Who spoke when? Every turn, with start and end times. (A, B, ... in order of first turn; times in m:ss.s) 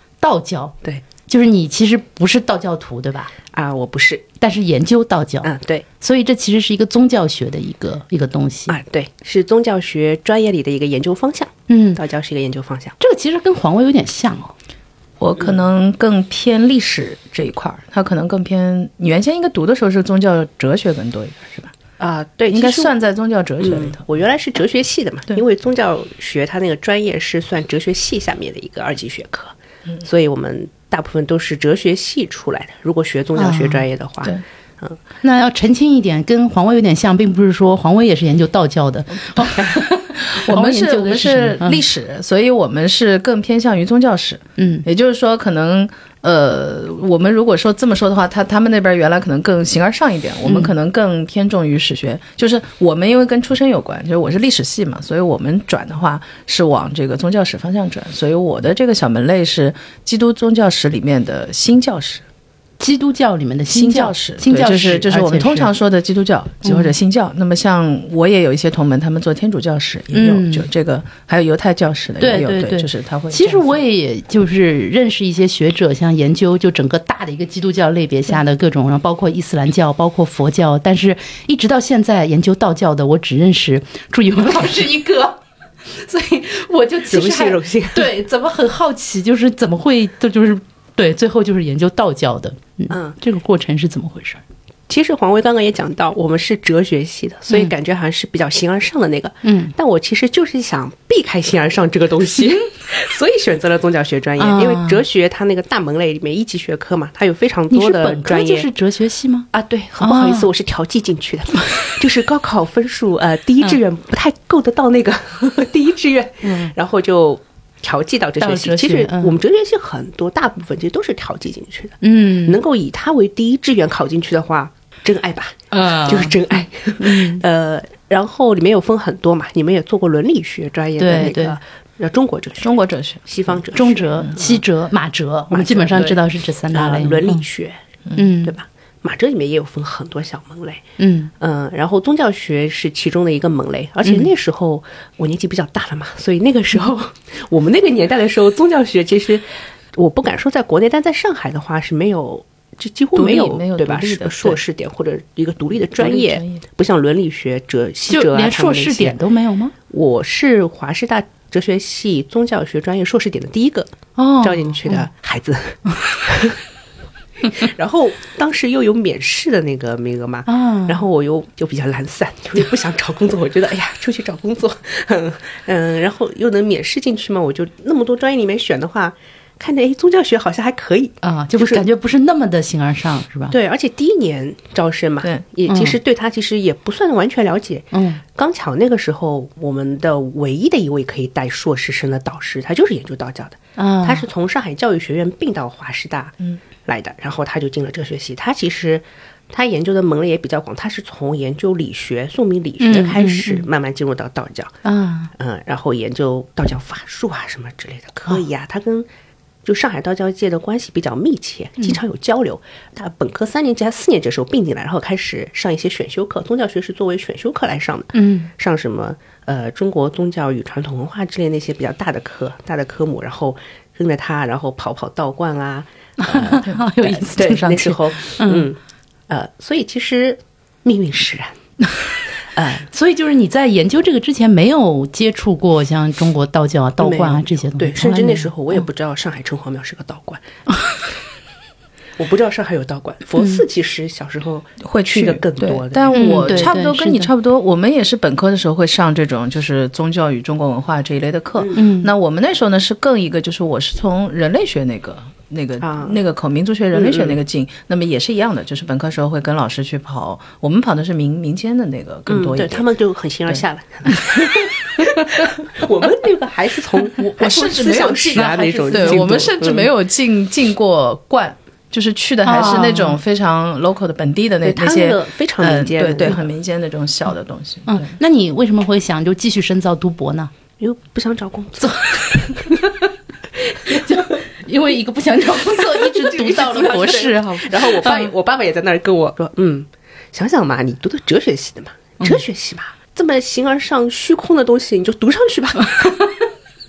0:00.2-0:00.7 A
0:01.3-0:03.3 A
0:03.5-0:04.2 B
0:04.4-0:08.7 A
0:05.4-0:05.8 B
0:08.7-0:13.0 B
0:11.7-0:12.0 A
0:13.0-0:14.5 A
0:15.2-0:21.7 C
0:22.0-0:22.9 B
0:22.5-0:24.0 C
0:23.6-0:35.0 B
0:33.4-0:33.8 A
0:35.2-0:41.8 A
0:39.3-1:02.2 C
0:44.6-0:44.8 A
0:50.4-0:50.7 A
1:02.8-1:05.7 A
1:03.7-1:13.8 C
1:06.6-1:06.9 A
1:10.1-1:10.7 A
1:12.2-1:34.4 A
1:27.1-1:28.1 B
1:32.9-1:33.2 B
1:34.9-1:48.7 B
1:39.4-1:39.7 A
1:44.4-1:45.0 A
1:47.7-1:49.5 A
1:49.5-2:14.6 B
1:50.0-1:50.5 A
1:56.4-1:56.7 A
1:58.4-1:59.4 A
2:02.0-2:02.6 A
2:05.7-2:07.4 A
2:11.0-2:11.6 A
2:12.6-2:13.2 C
2:13.7-2:17.4 A
2:15.5-2:17.8 B
2:18.1-2:18.6 A
2:18.4-2:20.8 B
2:21.0-2:21.3 A
2:21.4-2:39.2 B
2:24.0-2:24.3 A
2:33.1-2:34.6 C
2:36.0-2:36.6 C
2:38.1-2:39.7 A
2:39.9-2:46.6 B
2:44.2-2:45.1 A
2:47.4-3:01.8 B
2:50.5-2:51.0 A
3:01.2-3:03.5 A
3:03.5-3:24.8 B
3:05.7-3:06.0 A
3:07.9-3:08.2 A
3:13.8-3:14.2 A
3:22.8-3:23.7 A
3:24.8-3:25.3 A
3:25.4-3:29.1 B
3:29.6-3:48.8 B
3:38.1-3:38.5 A
3:46.2-3:48.7 A
3:49.3-3:51.6 B
3:52.4-3:52.9 B
3:52.9-3:58.8 A
3:57.0-4:00.5 B
4:02.2-4:06.7 B
4:03.4-4:03.6 A
4:04.8-4:22.8 C
4:06.1-4:07.3 A
4:11.7-4:12.1 A
4:15.8-4:16.2 B
4:16.9-4:17.4 B
4:22.3-4:29.9 B
4:23.5-4:25.5 C
4:27.2-4:29.4 A
4:27.4-4:38.2 C
4:32.4-4:33.2 A
4:34.6-4:36.5 B
4:37.9-4:40.5 A
4:40.8-4:42.8 B
4:41.8-4:43.0 A
4:43.8-4:48.3 A
4:43.8-4:44.3 B
4:45.6-4:56.1 B
4:55.8-4:56.5 A